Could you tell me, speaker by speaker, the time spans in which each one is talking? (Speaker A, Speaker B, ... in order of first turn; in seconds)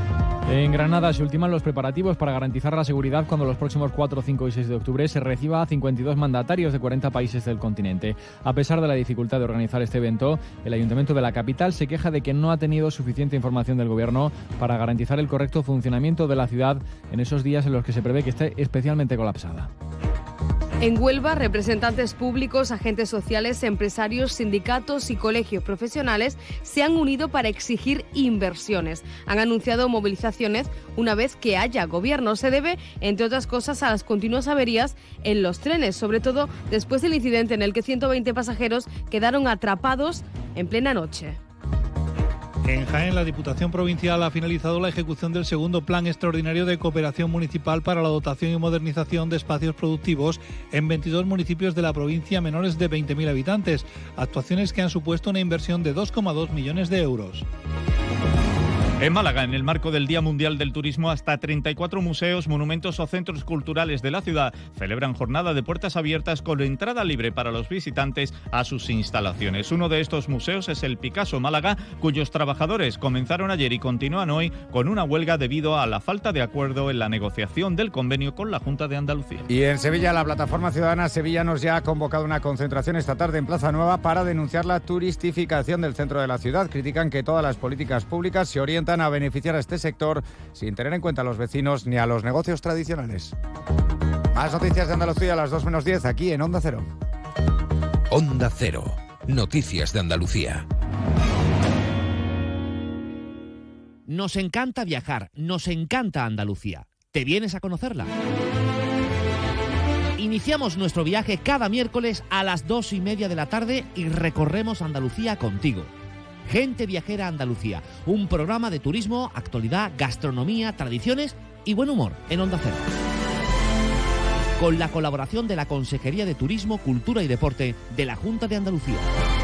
Speaker A: 0.5-19.7
Speaker B: 20.8-41.4
Speaker C: 42.7-57.4
Speaker D: 59.0-79.5
Speaker E: 79.5-93.3, 94.3-96.9
Speaker F: 98.1-100.6
Speaker G: 104.1-108.1, 110.2-115.9, 116.5-122.8, 124.6-129.0